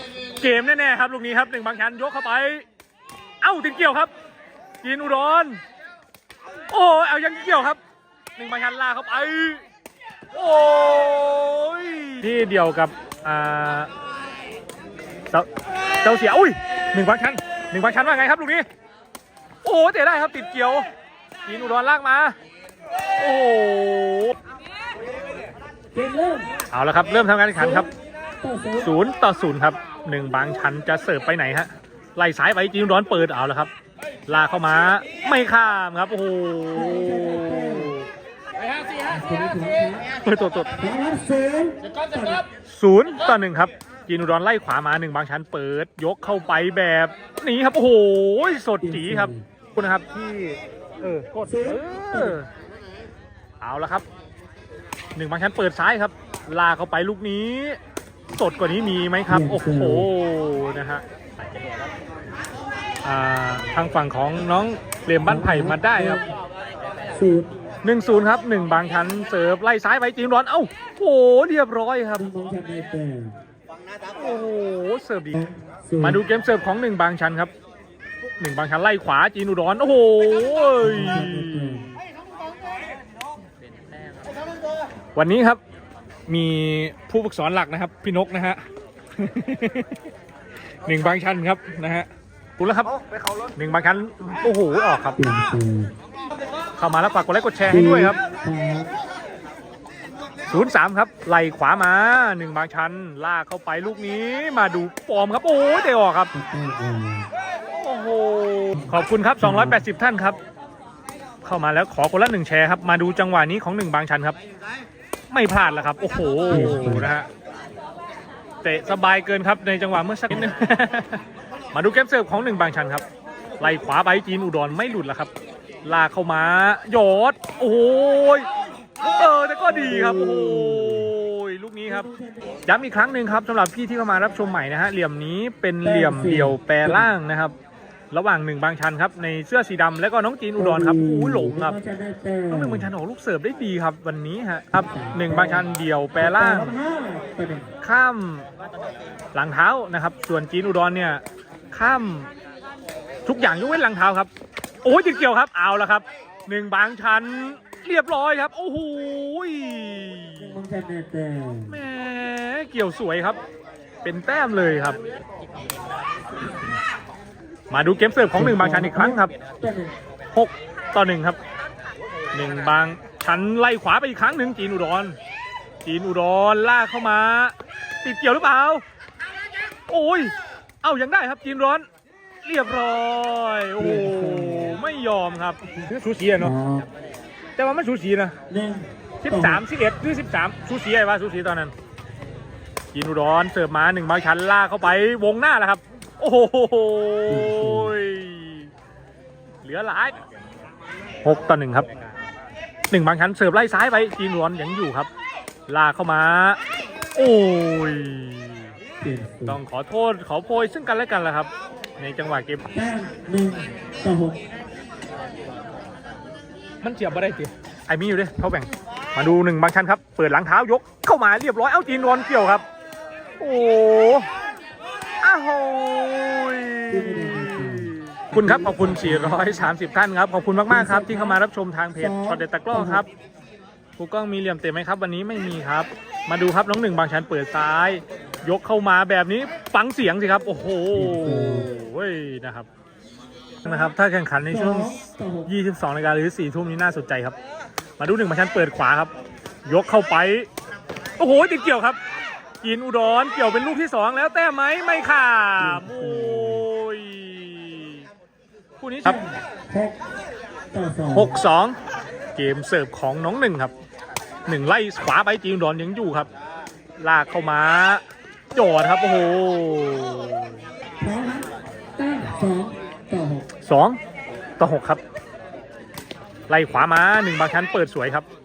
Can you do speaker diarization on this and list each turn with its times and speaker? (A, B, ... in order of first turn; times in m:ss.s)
0:00.4-0:02.6 A
0:03.4-0:04.1 A
0:04.8-0:05.6 A
0:06.7-0:07.8 A
0:08.4-0:09.6 A
0:10.3-0:13.9 A
0:16.0-0:18.6 A
0:19.6-0:20.8 A
0:21.4-0:22.4 A
0:23.2-0:24.3 A
0:25.9-0:26.5 B
0:26.7-0:27.9 A
0:27.5-0:28.9 B
0:28.8-0:33.7 A
0:34.3-0:38.1 A
0:36.7-0:37.9 B
0:39.1-0:40.0 B
0:40.2-0:40.7 A
0:40.8-0:42.4 B
0:42.6-0:52.5 A
0:48.8-0:49.4 B
0:51.5-0:52.4 B
0:53.6-0:54.0 A
0:55.2-0:57.8 A
0:58.3-1:01.0 A
0:59.3-1:00.1 B
1:03.0-1:06.2 A
1:05.2-1:06.3 B
1:07.1-1:07.5 B
1:07.8-1:12.2 A
1:12.2-1:13.4 B
1:14.1-1:17.5 A
1:15.3-1:16.2 B
1:18.4-1:22.0 A
1:20.8-1:21.9 B
1:25.1-1:25.6 A
1:26.3-1:28.6 A
1:29.2-1:30.0 A
1:30.8-1:32.9 A
1:33.5-1:35.2 A
1:35.2-1:35.9 B
1:36.8-1:38.2 A
1:37.6-1:38.9 B
1:40.5-1:46.3 A
1:46.3-1:47.3 B
1:47.8-1:50.4 A
1:48.7-1:49.8 B
1:51.4-1:54.4 A
1:55.3-1:57.3 A
1:56.5-1:57.1 B
1:58.6-2:01.2 A
2:01.7-2:03.0 A
2:03.6-2:05.3 A
2:05.8-2:08.5 A
2:09.1-2:12.1 A
2:09.7-2:11.1 B
2:11.8-2:12.6 B
2:12.6-2:17.5 A
2:15.8-2:17.1 B
2:18.1-2:21.8 A
2:20.6-2:22.9 B
2:22.5-2:26.8 A
2:24.8-2:25.6 B
2:26.2-2:27.7 B
2:27.8-2:28.5 A
2:29.3-2:32.3 A
2:33.2-2:34.3 A
2:34.8-2:40.6 A
2:40.4-2:41.8 B
2:41.7-2:43.4 A
2:44.0-2:45.0 A
2:47.7-2:49.3 A
2:48.3-2:49.9 B
2:50.3-2:51.4 A
2:52.3-2:55.2 A
2:55.8-2:58.8 A
2:59.9-3:01.8 A
3:02.4-3:06.5 A
3:03.8-3:04.8 B
3:05.6-3:06.9 B
3:07.6-3:08.3 A
3:08.5-3:09.6 B
3:09.2-3:11.7 A
3:12.9-3:18.7 A
3:17.3-3:18.0 B
3:19.6-3:20.2 A
3:21.2-3:21.9 A
3:22.9-3:25.1 A
3:25.7-3:26.6 A
3:27.1-3:28.7 A
3:29.0-3:29.6 B
3:29.4-3:32.6 A
3:32.7-3:34.4 B
3:36.8-3:42.6 A
3:43.4-3:44.3 A
3:45.2-3:53.1 A
3:46.9-3:49.7 B
3:50.7-3:51.4 B
3:51.9-3:53.0 B
3:54.0-4:02.7 A
4:00.9-4:01.7 B
4:03.6-4:04.9 A
4:03.6-4:03.9 B
4:04.4-4:05.5 B
4:05.4-4:07.4 A
4:08.0-4:09.1 A
4:09.6-4:10.5 A
4:11.2-4:12.0 A
4:12.6-4:18.0 A
4:15.6-4:16.7 B
4:18.8-4:19.2 A
4:19.0-4:20.0 B
4:20.7-4:21.4 B
4:21.1-4:21.8 A
4:22.4-4:23.7 A
4:24.5-4:26.3 A
4:27.0-4:28.0 A
4:28.5-4:30.6 A
4:31.0-4:33.5 B
4:33.6-4:34.0 A
4:34.6-4:35.0 A
4:36.5-4:38.2 A